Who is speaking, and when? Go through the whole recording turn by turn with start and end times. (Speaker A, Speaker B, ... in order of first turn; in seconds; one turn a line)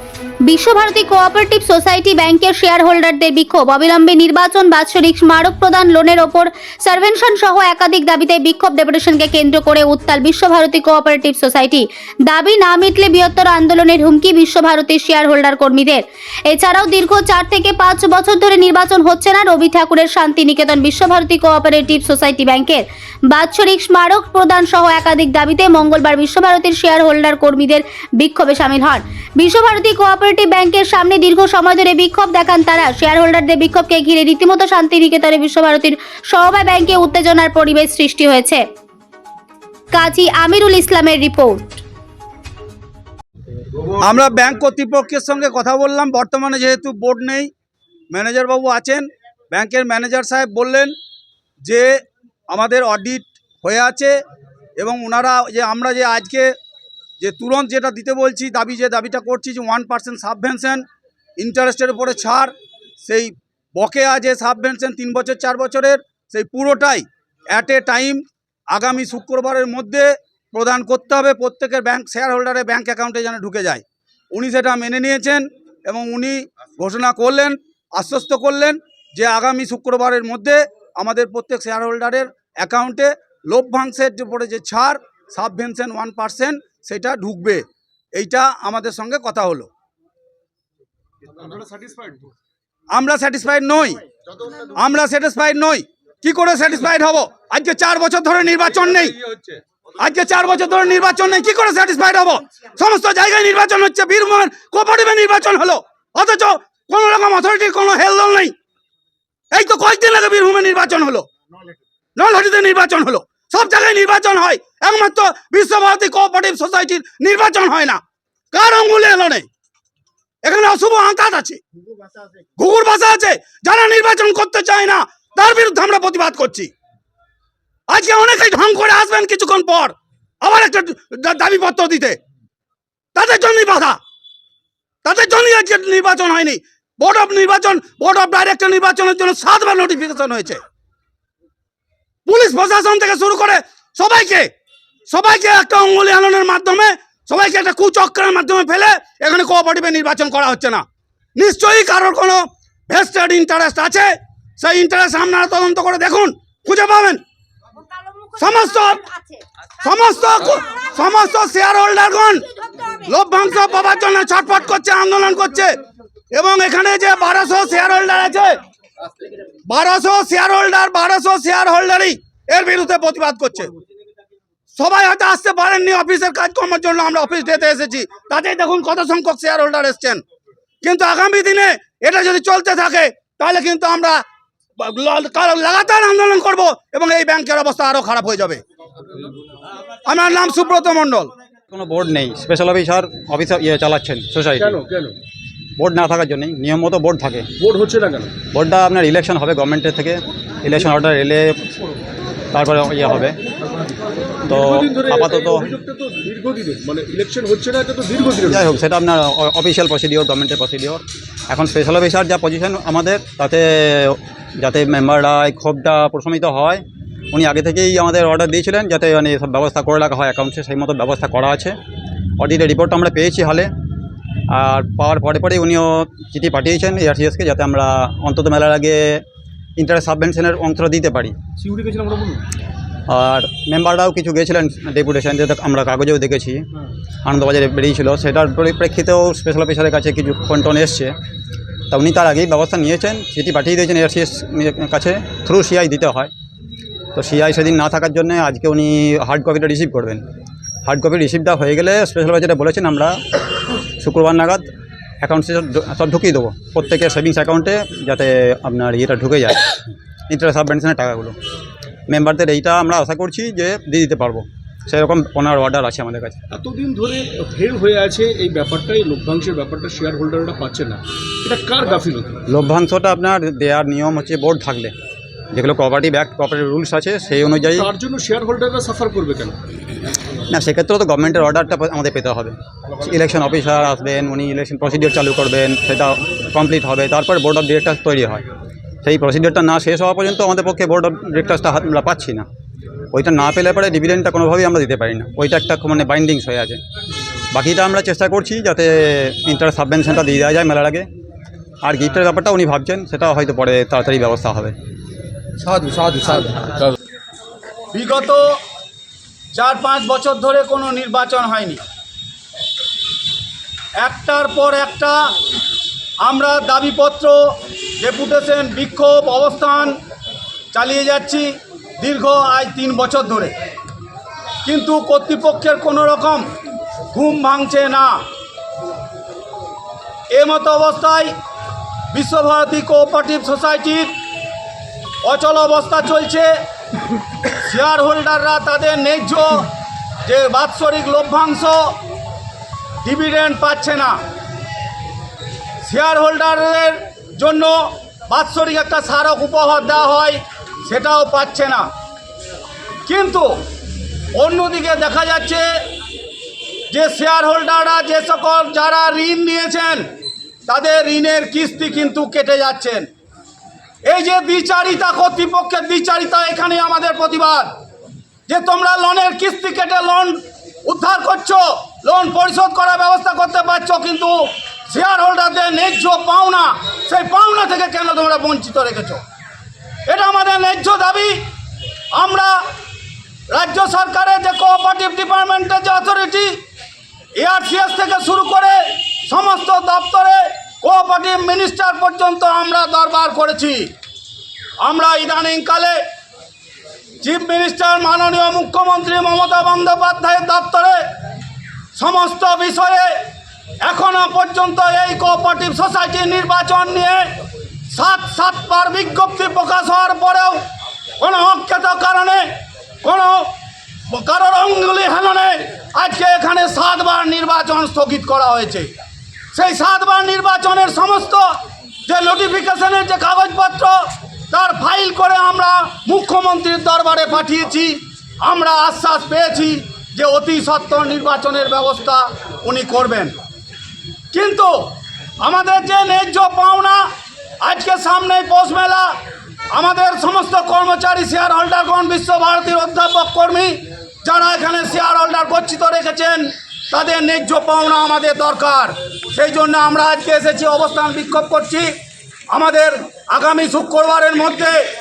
Speaker A: 0.4-38.6
Speaker A: 39.9-41.8
Speaker B: 44.0-47.5
Speaker B: 48.1-50.9
Speaker B: 51.6-51.9
Speaker B: 52.5-54.1
Speaker B: 54.8-56.5
Speaker B: 57.2-60.9
Speaker B: 61.4-89.7
Speaker C: 91.3-92.3
Speaker B: 92.9-94.0
Speaker B: 94.7-99.1
Speaker C: 99.3-99.6
Speaker B: 100.0-108.5
Speaker B: 109.5-111.3
Speaker B: 112.2-118.0
Speaker B: 118.5-119.5
Speaker B: 120.4-121.6
Speaker B: 122.6-126.7
Speaker B: 127.9-132.2
Speaker B: 133.1-134.0
Speaker B: 135.0-140.6
Speaker B: 142.2-144.5
Speaker B: 145.1-150.8
Speaker B: 151.3-157.2
Speaker B: 158.4-159.2
Speaker B: 159.8-162.5
Speaker B: 163.0-165.8
Speaker B: 166.3-168.6
Speaker B: 169.7-173.7
Speaker B: 174.8-180.2
Speaker B: 180.8-184.2
Speaker B: 184.8-188.6
Speaker B: 190.1-191.3
Speaker D: 191.7-194.7
Speaker C: 194.6-195.2
Speaker D: 195.8-197.5
Speaker C: 197.6-198.3
Speaker D: 198.5-201.6
Speaker D: 202.5-203.4
Speaker C: 204.4-208.7
Speaker D: 204.5-205.7
Speaker D: 208.4-221.8
Speaker D: 222.4-223.7
Speaker D: 224.5-229.2
Speaker D: 229.8-231.3
Speaker C: 231.6-232.4
Speaker D: 233.1-236.7
Speaker D: 237.2-241.1
Speaker D: 241.9-246.3
Speaker D: 247.1-250.2
Speaker D: 250.8-253.2
Speaker D: 254.0-254.7
Speaker D: 255.2-261.4
Speaker D: 262.1-266.4
Speaker C: 266.5-272.4
Speaker D: 272.5-274.9
Speaker D: 275.5-277.9
Speaker C: 277.7-279.6
Speaker D: 280.5-288.4
Speaker D: 289.0-292.4
Speaker D: 293.1-296.8
Speaker D: 297.5-301.1
Speaker D: 301.8-304.7
Speaker C: 305.8-306.7
Speaker B: 307.9-308.4
Speaker B: 309.5-311.8
Speaker B: 314.0-315.2
Speaker B: 316.2-319.9
Speaker B: 320.7-323.5
Speaker B: 324.6-326.4
Speaker B: 327.1-328.1
Speaker B: 330.3-331.3
Speaker B: 332.1-334.1
Speaker B: 335.2-336.5
Speaker B: 337.6-339.7
Speaker B: 340.2-341.9
Speaker B: 343.0-344.2
Speaker B: 345.8-351.9
Speaker B: 353.1-353.5
Speaker B: 354.3-355.6
Speaker B: 356.9-360.0
Speaker B: 360.7-363.1
Speaker B: 364.0-367.7
Speaker B: 368.5-374.3
Speaker B: 374.9-379.2
Speaker B: 380.1-381.4
Speaker B: 382.1-382.5
Speaker B: 383.5-386.6
Speaker B: 387.4-393.9
Speaker B: 394.8-396.0
Speaker B: 397.2-401.0
Speaker B: 401.9-403.1
Speaker B: 403.8-407.3
Speaker B: 407.9-410.6
Speaker B: 411.2-412.4
Speaker B: 413.0-413.5
Speaker B: 414.1-419.0
Speaker B: 419.5-421.4
Speaker B: 422.1-433.4
Speaker B: 434.3-434.7
Speaker B: 435.4-437.0
Speaker B: 437.6-439.1
Speaker B: 439.7-451.9
Speaker B: 452.5-454.8